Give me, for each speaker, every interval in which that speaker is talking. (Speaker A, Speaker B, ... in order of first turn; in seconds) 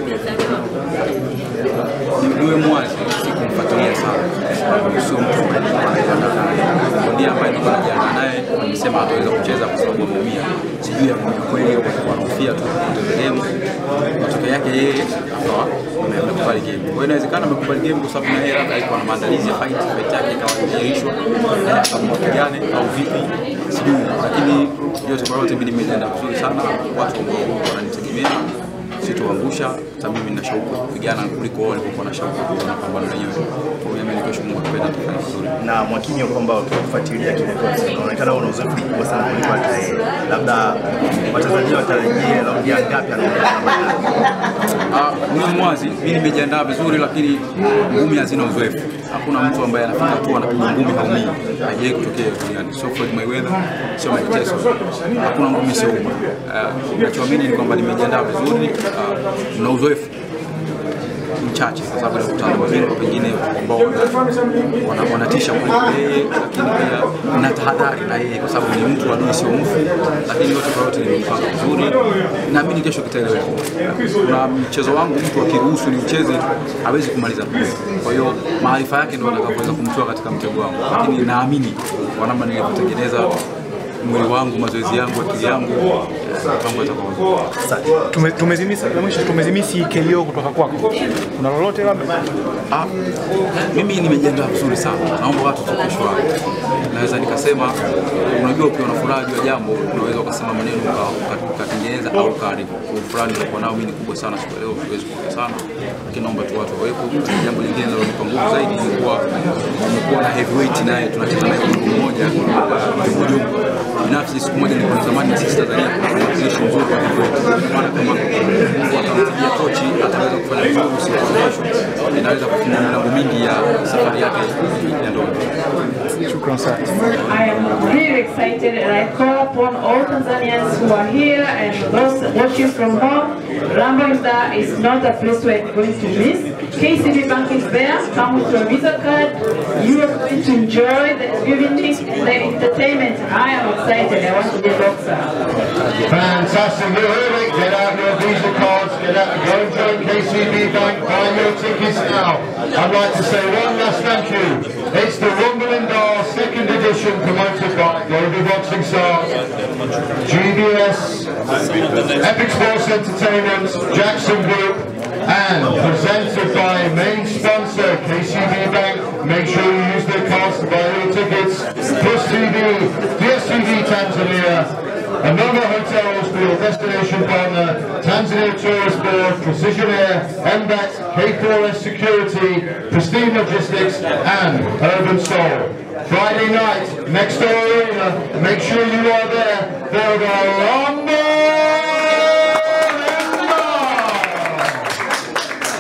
Speaker A: 2.2-13.5, 14.2-28.5, 29.0-35.5, 44.9-60.1, 61.4-64.2, 64.8-83.4, 84.0-87.3, 93.7-96.2, 96.9-97.8, 98.3-109.2, 109.8-125.4
Speaker B: 35.6-44.0, 87.6-87.9
Speaker C: 88.1-92.2, 126.3-126.9
Speaker D: 127.3-145.3
Speaker E: 146.1-159.3, 160.2-161.3, 162.2-174.7, 175.2-194.7